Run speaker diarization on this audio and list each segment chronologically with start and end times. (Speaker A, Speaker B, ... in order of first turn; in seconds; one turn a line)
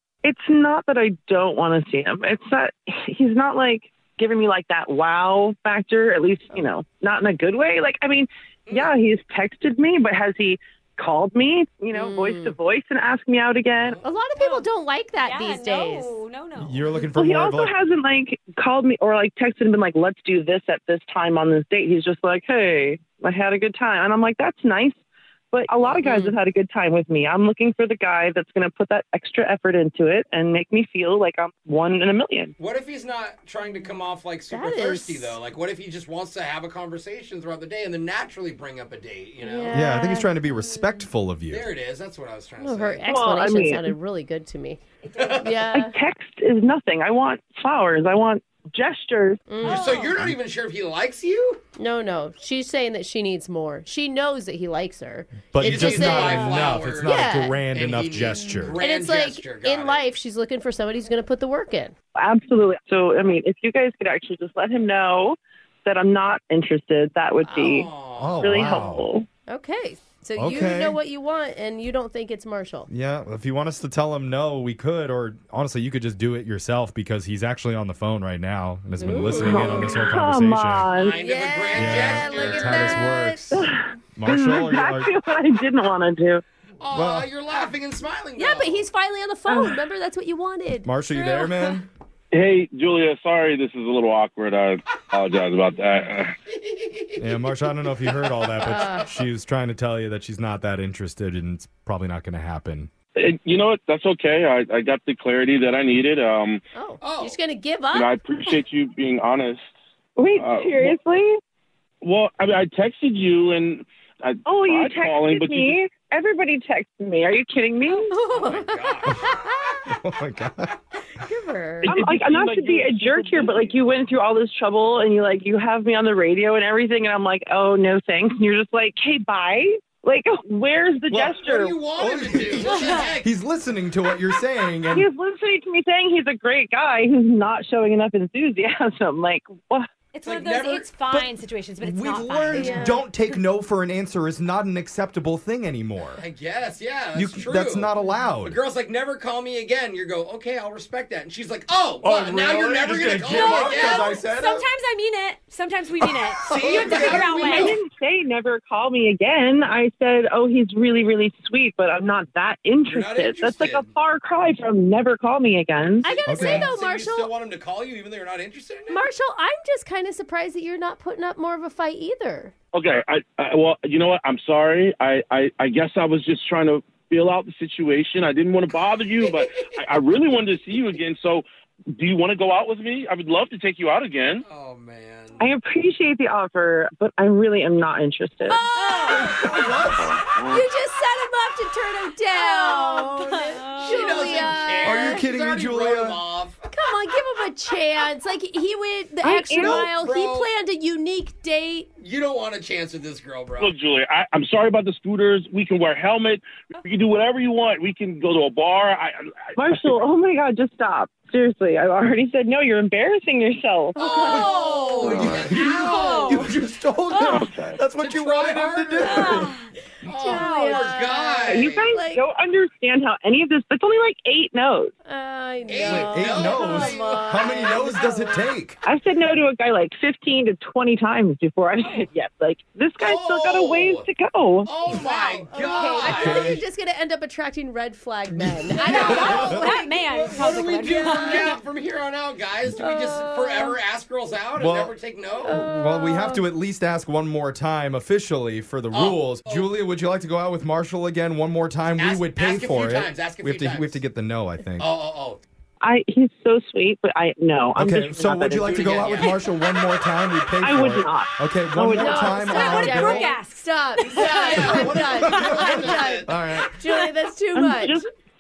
Speaker A: 0.2-14.0
Speaker B: 8.7-8.9
Speaker C: 11.9-12.6
Speaker B: 13.8-14.1
Speaker C: 14.0-16.1
Speaker D: 14.4-14.7
Speaker D: 15.2-17.0
Speaker E: 16.6-17.8
Speaker A: 17.1-25.0
Speaker A: 25.5-32.5
Speaker C: 26.0-26.3
Speaker B: 32.6-39.8
Speaker C: 34.5-35.4
Speaker C: 39.4-40.3
Speaker E: 39.7-41.7
Speaker B: 41.5-43.1
Speaker C: 42.6-44.8
Speaker A: 43.0-43.9
Speaker D: 45.0-45.4
Speaker B: 45.2-45.6
Speaker C: 45.4-45.9
Speaker A: 45.7-49.5
Speaker C: 49.5-50.0
Speaker B: 49.6-51.6
Speaker D: 49.6-50.1
Speaker C: 51.8-56.5
Speaker E: 55.5-58.8
Speaker B: 55.6-60.0
Speaker D: 56.2-56.8
Speaker C: 57.0-57.6
Speaker C: 58.8-62.0
Speaker A: 62.2-69.3
Speaker B: 67.5-68.8
Speaker E: 68.2-69.1
Speaker C: 69.5-72.9
Speaker E: 70.4-71.0
Speaker E: 72.9-80.9
Speaker C: 79.0-80.0
Speaker A: 79.2-81.2
Speaker B: 79.4-79.8
Speaker B: 80.9-83.0
Speaker C: 81.1-83.5
Speaker E: 81.7-85.1
Speaker A: 83.5-86.4
Speaker B: 86.8-88.8
Speaker E: 86.9-87.3
Speaker C: 88.4-91.5
Speaker A: 89.5-89.8
Speaker E: 90.8-91.8
Speaker F: 92.3-96.3
Speaker B: 96.5-97.2
Speaker E: 97.2-102.9
Speaker B: 98.0-98.9
Speaker C: 98.6-99.1
Speaker F: 103.2-106.6
Speaker C: 106.7-108.2
Speaker B: 107.0-107.4
Speaker F: 107.9-109.7
Speaker A: 110.2-111.4
Speaker F: 110.4-110.9
Speaker F: 112.0-115.7
Speaker A: 114.5-118.2
Speaker C: 118.1-119.8
Speaker B: 118.3-119.4
Speaker E: 119.9-120.7
Speaker C: 121.2-122.0
Speaker F: 121.8-123.7
Speaker A: 121.9-131.9
Speaker E: 131.1-135.1
Speaker B: 131.4-133.3
Speaker D: 132.6-133.1
Speaker A: 134.9-139.9
Speaker D: 140.1-142.9
Speaker B: 140.2-140.9
Speaker E: 141.8-146.2
Speaker C: 142.5-143.0
Speaker B: 146.2-147.9
Speaker E: 147.1-148.6
Speaker B: 148.4-154.2
Speaker E: 152.0-154.7
Speaker D: 153.2-157.8
Speaker B: 156.5-157.8
Speaker E: 156.5-156.9
Speaker A: 156.8-166.1
Speaker B: 162.9-163.9
Speaker C: 166.0-167.3
Speaker B: 166.1-169.0
Speaker E: 166.3-166.7
Speaker C: 168.9-172.5
Speaker F: 172.7-184.4
Speaker B: 184.4-185.4
Speaker A: 185.4-188.6
Speaker C: 188.5-189.6
Speaker D: 188.5-189.5
Speaker E: 189.2-190.2
Speaker C: 190.5-195.2
Speaker D: 192.3-194.5
Speaker B: 193.8-196.6
Speaker E: 194.8-196.2
Speaker C: 196.7-201.9
Speaker A: 199.2-199.9
Speaker B: 199.6-200.5
Speaker B: 202.0-203.7
Speaker F: 203.6-209.3
Speaker A: 209.6-214.0
Speaker B: 214.0-216.5
Speaker D: 214.0-216.5
Speaker C: 214.0-214.8
Speaker E: 215.0-219.5
Speaker F: 217.3-217.8
Speaker B: 218.0-219.5
Speaker D: 219.0-219.7
Speaker B: 220.0-221.9
Speaker C: 220.1-222.2
Speaker D: 220.2-221.0
Speaker A: 221.5-224.9
Speaker C: 225.1-228.5
Speaker B: 225.7-227.8
Speaker E: 225.8-228.8
Speaker A: 228.8-234.7
Speaker B: 233.0-234.1
Speaker B: 234.7-236.6
Speaker C: 235.0-240.0
Speaker E: 236.0-236.6
Speaker E: 238.4-239.6
Speaker D: 238.8-241.6
Speaker B: 238.8-245.6
Speaker C: 240.9-241.5
Speaker C: 242.8-243.8
Speaker E: 244.6-244.9
Speaker C: 245.5-246.4
Speaker E: 245.5-254.9
Speaker B: 248.9-249.7
Speaker B: 252.0-254.0
Speaker B: 254.8-255.4
Speaker A: 255.8-259.1
Speaker E: 257.8-263.3
Speaker B: 258.6-259.4
Speaker A: 260.6-262.4
Speaker C: 261.9-268.0
Speaker D: 262.4-264.8
Speaker B: 264.0-266.3
Speaker D: 265.3-265.7
Speaker E: 266.2-266.7
Speaker A: 267.5-268.1